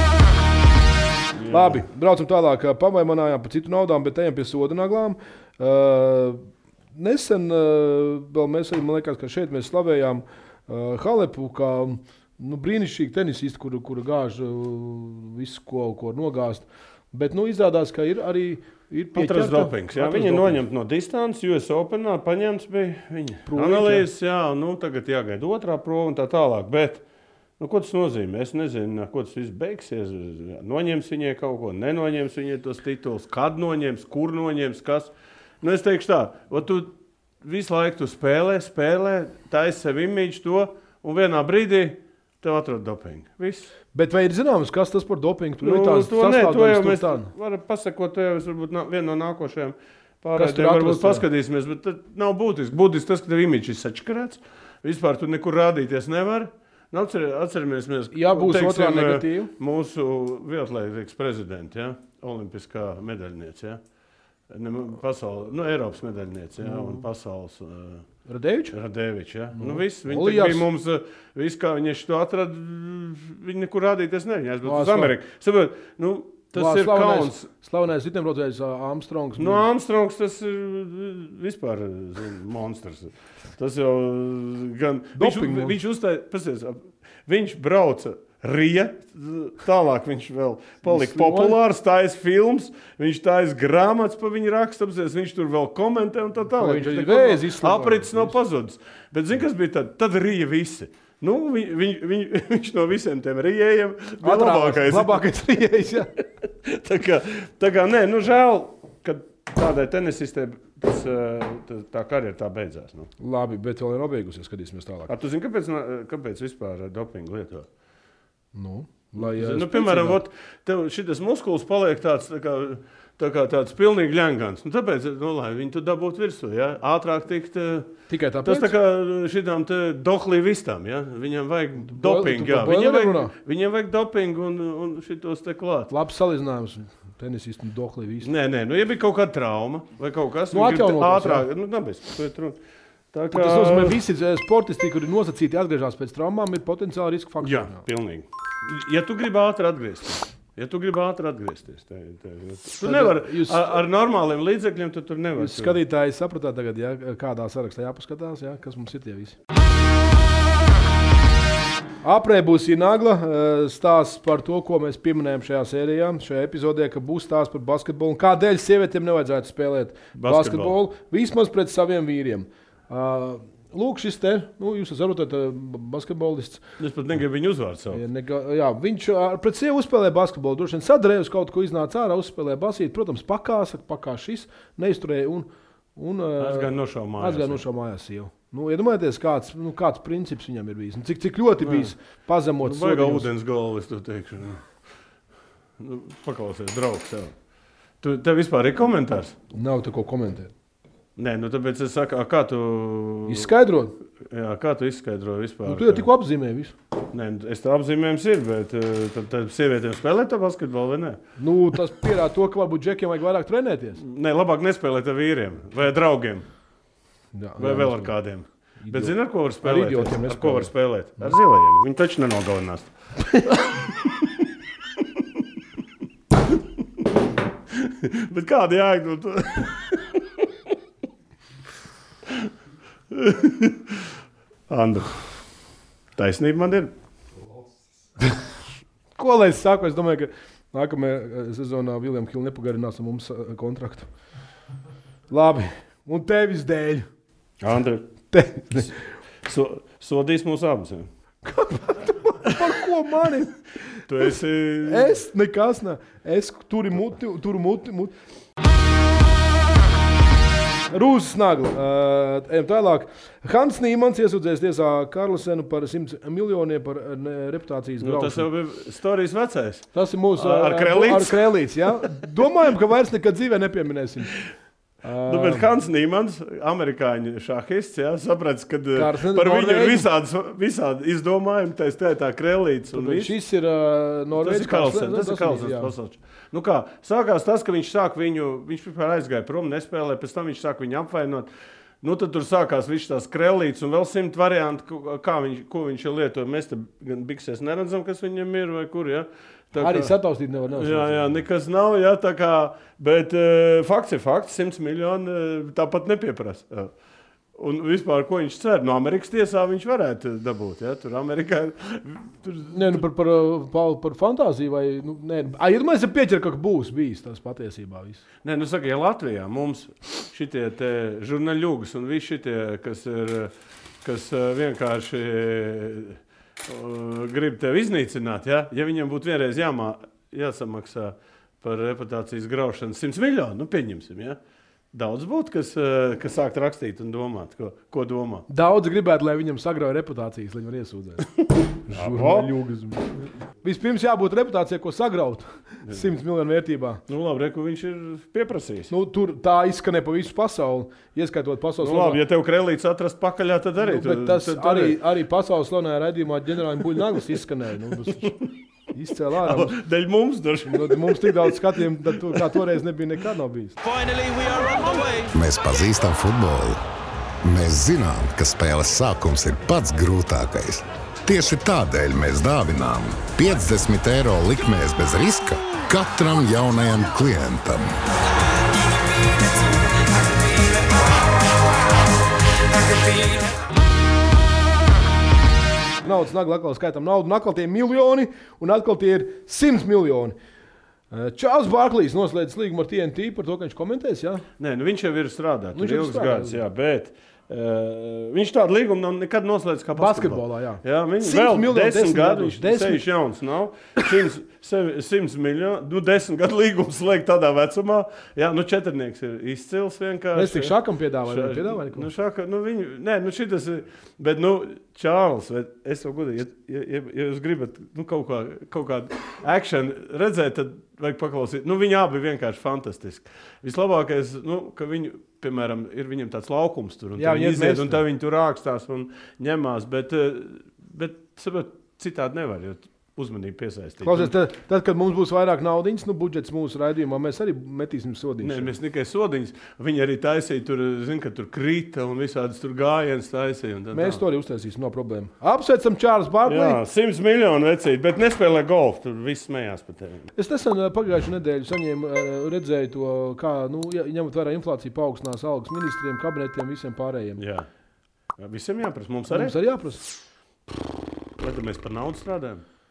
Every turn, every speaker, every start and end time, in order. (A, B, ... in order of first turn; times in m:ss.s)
0:01.3-0:01.8 A
0:01.5-0:06.4 B
0:07.0-0:20.6 B
0:19.1-0:27.0 A
0:23.5-0:24.1 B
0:27.6-0:43.7 A
0:43.9-0:47.3 B
0:45.6-1:03.8 A
0:50.4-0:51.2 B
0:58.1-0:59.5 B
1:04.5-1:08.0 A
1:06.6-1:07.0 B
1:08.3-1:08.8 B
1:08.7-1:17.5 A
1:09.5-1:10.7 B
1:14.6-1:15.1 B
1:16.6-1:19.6 B
1:19.4-1:45.2 A
1:25.2-1:25.8 B
1:30.8-1:31.6 B
1:36.6-1:38.4 B
1:44.2-1:46.1 B
1:46.6-1:53.1 A
1:53.2-1:55.1 B
1:55.1-1:57.7 A
1:58.5-2:00.2 B
1:59.2-2:07.9 A
2:08.1-2:08.7 B
2:08.4-2:15.9 A
2:11.9-2:13.3 B
2:15.9-2:18.3 B
2:18.2-2:22.6 A
2:20.5-2:21.4 B
2:23.1-2:24.0 A
2:23.3-2:27.8 B
2:27.4-2:35.8 A
2:32.8-2:33.8 B
2:35.4-2:39.4 B
2:42.0-2:56.6 B
2:50.2-2:50.8 A
2:56.8-2:58.0 A
2:57.9-3:13.3 B
3:06.4-3:07.6 A
3:11.6-3:11.9 A
3:12.6-3:14.6 A
3:15.8-3:17.3 A
3:18.0-3:19.4 A
3:19.5-3:20.5 B
3:21.2-3:23.5 A
3:23.3-3:24.0 B
3:24.2-3:26.1 A
3:25.6-3:26.7 B
3:27.1-3:31.2 A
3:31.4-3:34.0 B
3:34.0-3:36.5 A
3:37.3-3:38.1 B
3:37.6-3:42.9 A
3:38.8-3:40.7 B
3:43.5-3:44.3 A
3:47.7-3:50.4 A
3:53.1-3:54.0 A
3:54.7-3:55.3 A
3:56.2-3:56.9 A
3:59.2-4:04.1 B
4:05.3-4:07.1 B
4:07.6-4:08.1 A
4:08.3-4:08.9 B
4:09.4-4:11.1 A
4:11.4-4:13.6 B
4:14.1-4:15.2 A
4:14.8-4:18.1 B
4:20.9-4:28.5 B
4:28.0-4:32.1 A
4:29.9-4:34.4 B
4:35.0-4:35.7 B
4:35.2-4:43.3 A
4:39.0-4:40.1 B
4:42.9-4:45.9 B
4:44.3-4:51.5 A
4:52.0-5:00.1 A
4:59.8-5:01.3 B
5:00.7-5:06.9 A
5:07.5-5:13.0 A
5:12.7-5:18.2 B
5:18.4-5:34.4 A
5:34.9-5:38.4 A
5:38.5-5:41.3 B
5:41.9-5:47.0 B
5:41.9-5:42.5 A
5:47.1-5:48.9 A
5:48.9-5:52.2 B
5:51.8-5:55.0 A
5:53.8-5:58.3 B
5:58.1-5:58.5 A
5:58.9-5:59.8 B
5:59.4-6:02.6 A
6:00.6-6:03.8 B
6:03.8-6:05.4 C
6:05.3-6:06.8 D
6:07.4-6:18.0 D
6:18.7-6:21.0 C
6:22.7-6:23.6 C
6:26.0-6:30.4 B
6:31.1-6:34.5 B
6:34.6-6:50.8 A
6:35.8-6:36.6 B
6:40.0-6:43.0 B
6:50.4-6:52.1 B
6:51.2-7:14.3 A
7:07.2-7:08.0 B
7:14.0-7:18.7 B
7:18.4-7:24.2 A
7:23.9-7:26.8 B
7:26.5-7:30.3 A
7:30.4-7:37.4 B
7:37.4-7:37.7 A
7:38.4-7:39.5 A
7:39.3-7:40.0 B
7:41.4-7:42.6 A